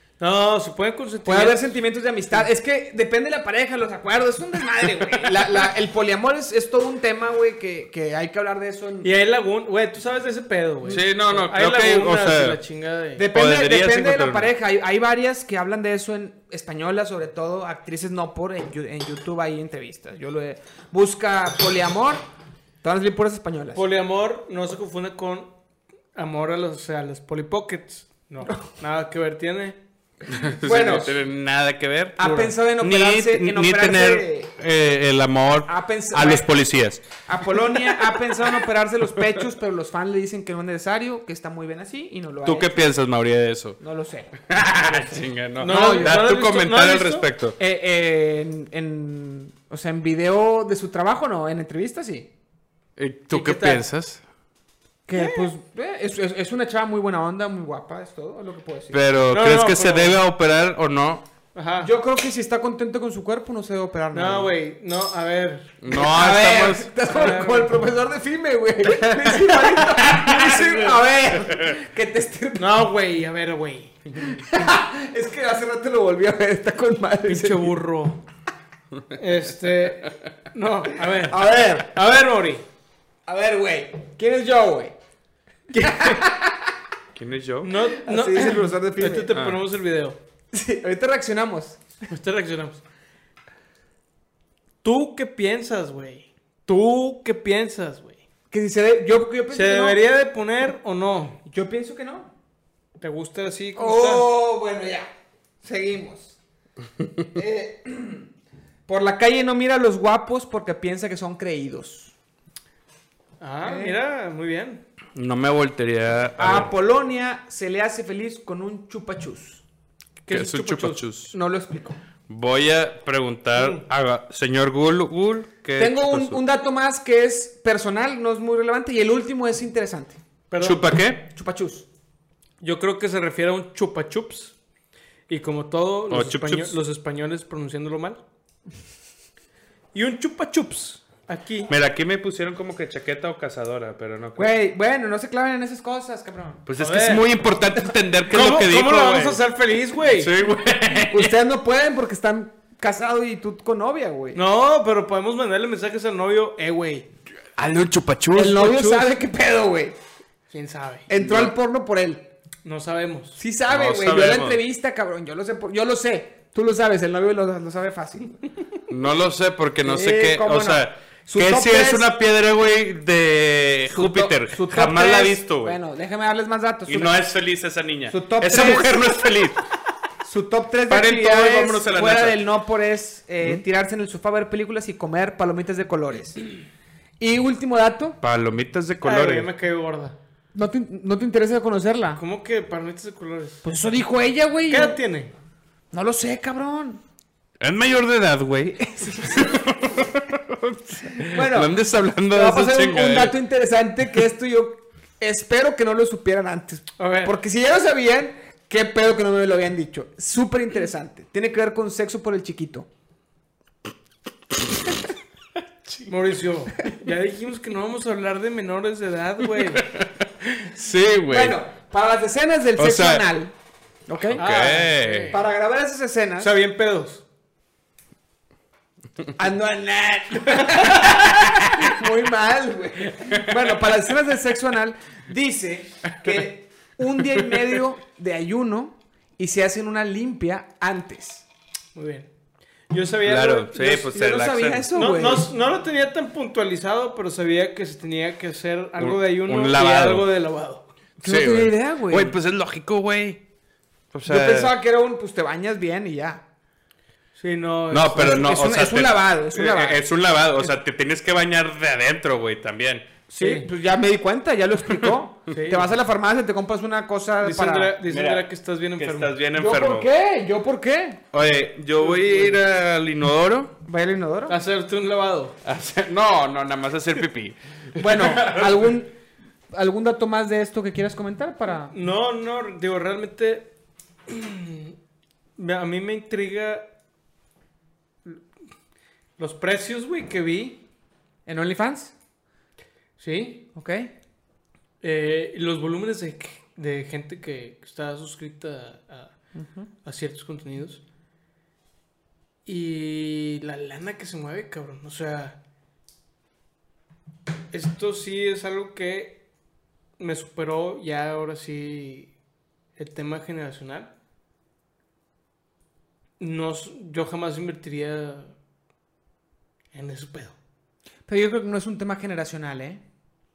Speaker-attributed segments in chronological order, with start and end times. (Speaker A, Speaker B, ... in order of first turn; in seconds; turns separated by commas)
Speaker A: 0.2-1.8, Speaker B: 1.2-9.1, Speaker A: 9.0-13.3, Speaker C: 10.9-12.6, Speaker B: 13.2-22.2, Speaker C: 13.3-14.5, Speaker B: 22.8-23.8, Speaker A: 23.7-25.5, Speaker A: 26.1-29.8, Speaker C: 30.3-32.2, Speaker B: 30.6-31.2, Speaker B: 32.2-34.5, Speaker A: 32.2-32.5, Speaker C: 32.8-37.0, Speaker B: 35.7-36.5, Speaker B: 37.3-42.8, Speaker C: 42.4-43.8, Speaker B: 43.8-44.3, Speaker C: 44.5-47.6, Speaker A: 44.9-47.3, Speaker B: 45.6-46.2, Speaker B: 47.6-52.3, Speaker C: 53.0-54.2, Speaker A: 53.3-53.8, Speaker B: 55.1-59.0, Speaker A: 55.1-55.5, Speaker C: 58.9-61.2, Speaker A: 59.3-60.2, Speaker A: 61.5-61.9, Speaker B: 61.8-64.5, Speaker A: 64.1-65.7, Speaker C: 65.8-66.9, Speaker B: 65.9-72.7, Speaker A: 67.0-67.8, Speaker C: 68.9-71.0, Speaker A: 72.6-74.2, Speaker B: 74.2-77.7, Speaker A: 77.3-78.2, Speaker A: 79.2-82.7, Speaker B: 81.2-81.9, Speaker B: 83.3-84.9, Speaker A: 85.7-86.2, Speaker B: 85.8-86.7, Speaker C: 87.2-87.7, Speaker A: 87.6-90.2, Speaker B: 88.0-89.4, Speaker C: 89.3-89.6, Speaker B: 90.5-91.8, Speaker A: 92.1-92.8, Speaker A: 94.8-98.2, Speaker B: 98.5-100.0, Speaker A: 99.5-101.4, Speaker B: 101.5-102.3, Speaker A: 103.0-104.3, Speaker B: 103.8-105.1, Speaker B: 105.6-106.3, Speaker B: 107.3-108.3, Speaker B: 108.9-112.1, Speaker A: 113.4-114.8, Speaker B: 113.6-114.0, Speaker C: 115.2-116.7, Speaker B: 116.4-119.6, Speaker A: 120.2-121.1, Speaker C: 120.3-121.4, Speaker B: 121.3-122.0, Speaker C: 122.3-126.4, Speaker A: 123.5-123.8, Speaker B: 125.8-130.2, Speaker A: 130.5-130.8, Speaker C: 130.6-131.2, Speaker B: 131.3-131.9, Speaker A: 132.6-134.6, Speaker A: 135.3-138.2, Speaker C: 136.1-136.8, Speaker A: 139.9-141.7, Speaker C: 141.7-144.5, Speaker B: 144.4-146.6, Speaker C: 146.7-149.4, Speaker A: 146.8-147.3, Speaker A: 148.3-150.3, Speaker C: 150.1-151.3, Speaker B: 151.1-154.4, Speaker A: 154.3-157.1, Speaker C: 157.6-159.1, Speaker B: 158.3-159.9, Speaker A: 160.5-161.1, Speaker B: 161.1-162.2, Speaker C: 161.2-161.5, Speaker A: 162.7-163.4, Speaker B: 163.4-168.4, Speaker C: 163.7-164.6, Speaker C: 168.9-175.8, Speaker B: 169.8-172.1, Speaker B: 173.9-177.1, Speaker C: 176.9-179.6, Speaker B: 178.1-179.0, Speaker B: 180.2-186.4, Speaker C: 180.9-182.4, Speaker B: 187.2-188.2, Speaker C: 188.2-189.5, Speaker A: 189.0-190.2, Speaker B: 190.5-192.2, Speaker A: 192.2-193.6, Speaker B: 193.6-195.0, Speaker A: 194.7-195.3, Speaker B: 195.9-197.0, Speaker C: 197.6-203.4, Speaker B: 198.7-199.6, Speaker B: 201.3-212.9, Speaker A: 207.0-207.3, Speaker A: 216.1-219.9, Speaker C: 219.6-221.6, Speaker B: 221.3-223.5, Speaker C: 222.8-223.2, Speaker B: 224.1-224.4, Speaker C: 224.2-225.3, Speaker A: 224.4-225.4, Speaker B: 225.3-226.5, Speaker A: 226.4-227.2, Speaker B: 229.4-241.5, Speaker C: 233.2-233.9, Speaker C: 237.5-237.8, Speaker A: 241.9-242.3, Speaker A: 242.9-244.1, Speaker C: 243.2-244.9, Speaker B: 244.1-245.5, Speaker A: 244.9-250.9, Speaker C: 249.0-250.3, Speaker B: 251.2-252.4, Speaker C: 251.2-253.4, Speaker C: 254.1-254.7, Speaker B: 254.3-256.4, Speaker A: 257.4-258.5, Speaker C: 257.9-263.1, Speaker B: 258.2-260.0, Speaker B: 263.3-267.9, Speaker A: 263.4-263.7, Speaker A: 265.5-265.9, Speaker A: 267.4-269.4, Speaker C: 268.1-268.5, Speaker C: 269.0-270.1, Speaker B: 269.5-271.2, Speaker C: 271.3-273.7, Speaker A: 272.0-272.6, Speaker B: 273.9-274.6, Speaker A: 274.5-275.6, Speaker C: 275.6-278.9, Speaker B: 278.0-279.1, Speaker B: 279.7-281.9, Speaker A: 281.9-283.7, Speaker A: 284.3-284.9, Speaker A: 285.6-286.9, Speaker A: 289.4-290.8, Speaker B: 291.5-292.1, Speaker A: 293.2-293.7, Speaker B: 293.8-294.1, Speaker A: 295.0-299.3, Speaker B: 299.6-299.9, Speaker A: 300.1-301.0, Speaker A: 302.7-305.6, Speaker A: 307.7-309.4, Speaker A: 310.2-312.3, Speaker A: 313.0-314.1, Speaker A: 316.4-318.5, Speaker A: 319.9-320.6, Speaker B: 321.3-323.0